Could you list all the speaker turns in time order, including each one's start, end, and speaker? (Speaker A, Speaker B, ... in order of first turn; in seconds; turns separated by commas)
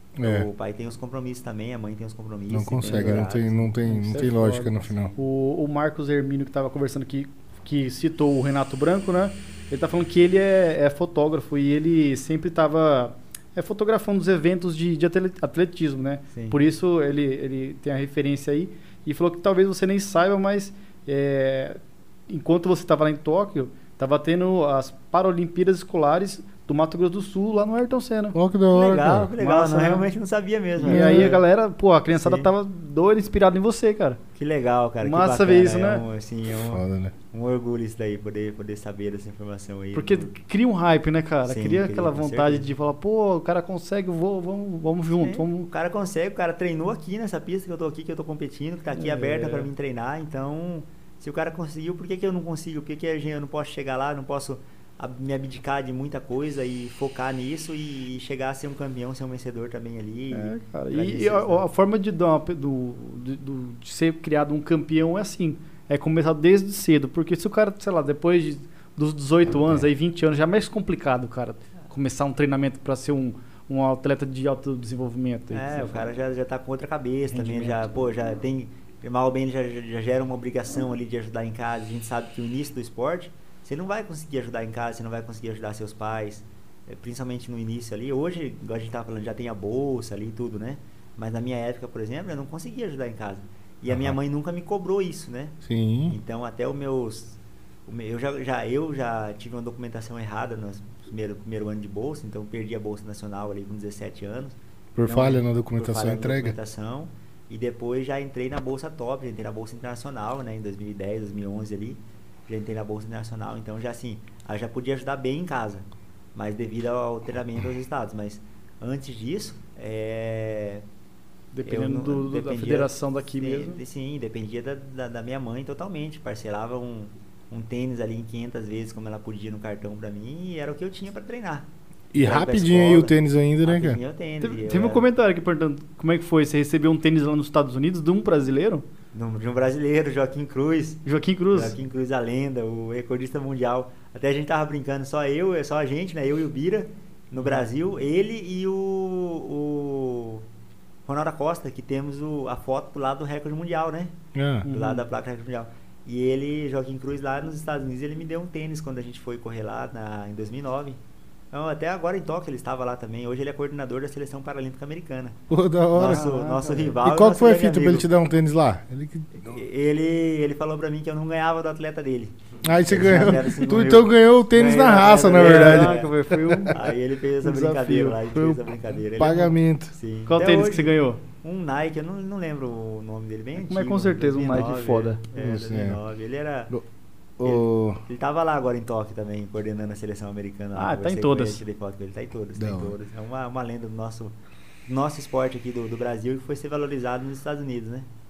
Speaker A: 0.1-0.5, Speaker B: 0.2-3.5, Speaker A: 2.5-5.1, Speaker C: 2.8-28.4, Speaker B: 16.3-16.6, Speaker A: 28.3-29.3, Speaker B: 28.7-31.4, Speaker C: 29.4-30.1, Speaker C: 30.8-34.2, Speaker A: 30.8-31.4, Speaker B: 32.1-32.5, Speaker B: 34.4-40.3, Speaker C: 35.0-36.0, Speaker A: 36.6-37.1, Speaker C: 39.9-45.7, Speaker B: 41.4-42.7, Speaker B: 45.2-61.6, Speaker C: 48.9-49.7, Speaker C: 60.3-76.0, Speaker B: 75.5-95.5, Speaker C: 77.3-77.9, Speaker A: 93.9-94.2, Speaker A: 95.6-96.2, Speaker B: 96.1-120.8, Speaker A: 105.0-106.5, Speaker C: 121.5-123.8, Speaker B: 121.7-135.0, Speaker A: 132.1-134.0, Speaker C: 134.4-138.8, Speaker B: 139.1-150.4, Speaker C: 141.0-141.8, Speaker B: 151.1-154.1, Speaker A: 154.3-154.7, Speaker C: 154.6-155.0, Speaker B: 154.7-161.0, Speaker B: 161.5-165.4, Speaker A: 165.5-166.2, Speaker B: 165.9-168.1, Speaker C: 166.0-166.9, Speaker A: 167.0-169.5, Speaker B: 169.4-176.1, Speaker A: 172.6-176.7, Speaker C: 175.0-176.8, Speaker B: 176.7-186.7, Speaker C: 177.4-178.2, Speaker A: 178.3-178.6, Speaker A: 179.2-179.9, Speaker C: 180.3-181.2, Speaker C: 183.6-185.2, Speaker A: 185.3-186.0, Speaker A: 187.4-188.0, Speaker B: 187.4-194.3, Speaker C: 190.8-191.6, Speaker A: 192.6-192.9, Speaker B: 194.9-198.1